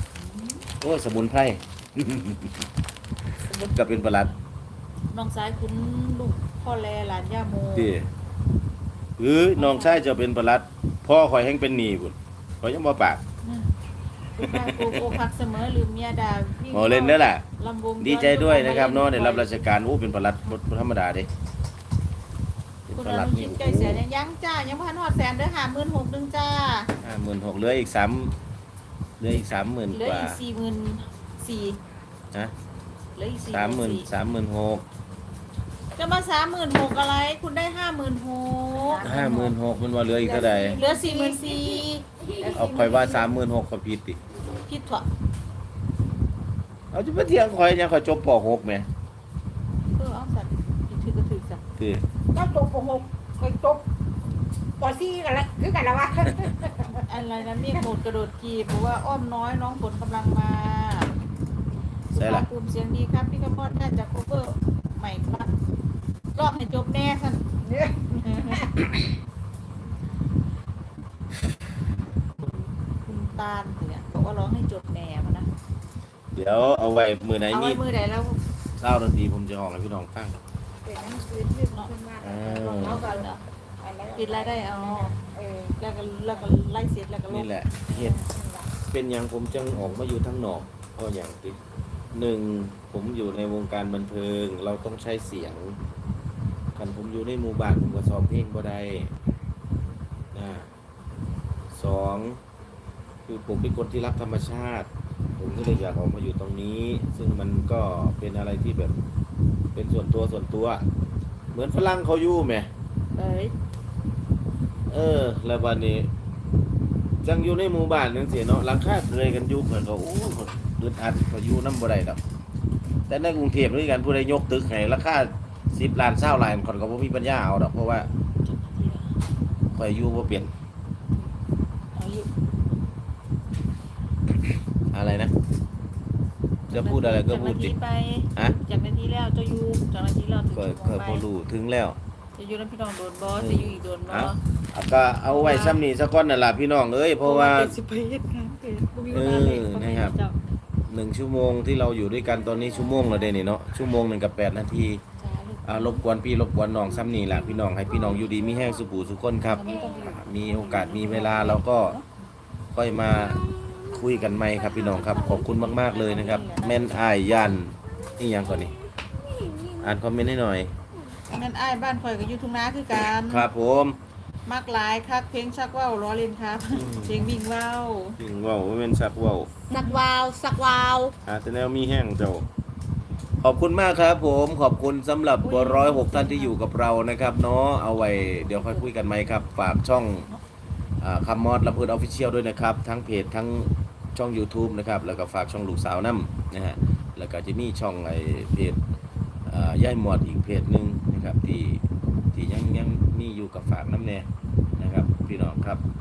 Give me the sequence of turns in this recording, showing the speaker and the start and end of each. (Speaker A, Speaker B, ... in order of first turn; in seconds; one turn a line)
Speaker A: 0.2-0.6
Speaker B: 0.8-2.7
Speaker B: 3.5-4.3
Speaker A: 3.5-3.8
Speaker A: 5.1-7.9
Speaker B: 7.7-8.1
Speaker B: 9.2-13.2
Speaker A: 9.5-10.1
Speaker A: 13.4-13.7
Speaker A: 14.4-19.5
Speaker B: 14.4-15.2
Speaker B: 16.7-17.4
Speaker B: 18.0-21.3
Speaker B: 22.9-24.0
Speaker A: 22.9-26.9
Speaker B: 27.0-28.4
Speaker B: 29.2-30.4
Speaker A: 29.9-31.8
Speaker A: 33.1-34.1
Speaker B: 33.5-34.8
Speaker A: 36.0-39.5
Speaker C: 38.9-39.2
Speaker B: 39.0-40.8
Speaker C: 40.2-43.3
Speaker A: 40.7-43.3
Speaker B: 42.5-44.2
Speaker A: 44.6-45.1
Speaker B: 46.9-48.9
Speaker A: 49.9-51.6
Speaker B: 51.8-52.0
Speaker C: 52.3-53.9
Speaker C: 54.8-57.0
Speaker B: 56.2-56.5
Speaker A: 56.9-61.1
Speaker A: 62.1-65.5
Speaker B: 62.1-62.5
Speaker A: 66.3-67.4
Speaker C: 67.6-68.9
Speaker A: 68.2-68.7
Speaker A: 73.0-75.5
Speaker B: 76.3-77.8
Speaker A: 77.5-78.4
Speaker B: 78.8-80.4
Speaker C: 80.8-86.5
Speaker B: 82.2-83.1
Speaker A: 82.7-83.4
Speaker A: 84.1-85.1
Speaker A: 85.8-88.1
Speaker B: 87.3-88.2
Speaker C: 88.0-88.7
Speaker B: 88.9-91.6
Speaker B: 92.1-95.8
Speaker B: 96.8-99.1
Speaker B: 100.3-100.7
Speaker B: 101.7-102.4
Speaker B: 103.3-109.0
Speaker B: 109.8-110.8
Speaker B: 111.5-112.7
Speaker A: 113.1-113.5
Speaker B: 114.9-116.1
Speaker B: 117.2-122.2
Speaker B: 123.1-128.1
Speaker A: 128.4-129.1
Speaker B: 129.7-130.5
Speaker A: 131.9-132.3
Speaker B: 134.9-135.3
Speaker A: 136.7-141.2
Speaker B: 136.7-137.8
Speaker B: 140.5-142.0
Speaker A: 142.4-144.4
Speaker B: 143.4-147.8
Speaker A: 145.2-145.8
Speaker A: 147.2-150.4
Speaker B: 149.1-150.2
Speaker B: 150.9-155.0
Speaker A: 152.3-153.3
Speaker A: 155.2-156.0
Speaker B: 155.6-162.0
Speaker A: 157.1-158.8
Speaker A: 159.4-162.1
Speaker B: 162.7-168.8
Speaker A: 164.5-166.9
Speaker B: 169.8-170.8
Speaker A: 171.3-173.5
Speaker B: 173.0-174.0
Speaker A: 174.5-178.2
Speaker B: 176.7-177.3
Speaker B: 178.2-179.5
Speaker A: 179.7-180.9
Speaker C: 179.8-181.1
Speaker B: 181.2-182.5
Speaker B: 183.4-190.3
Speaker A: 185.4-186.6
Speaker A: 188.3-188.9
Speaker B: 191.0-198.8
Speaker B: 199.5-201.8
Speaker B: 202.3-204.3
Speaker B: 204.8-205.8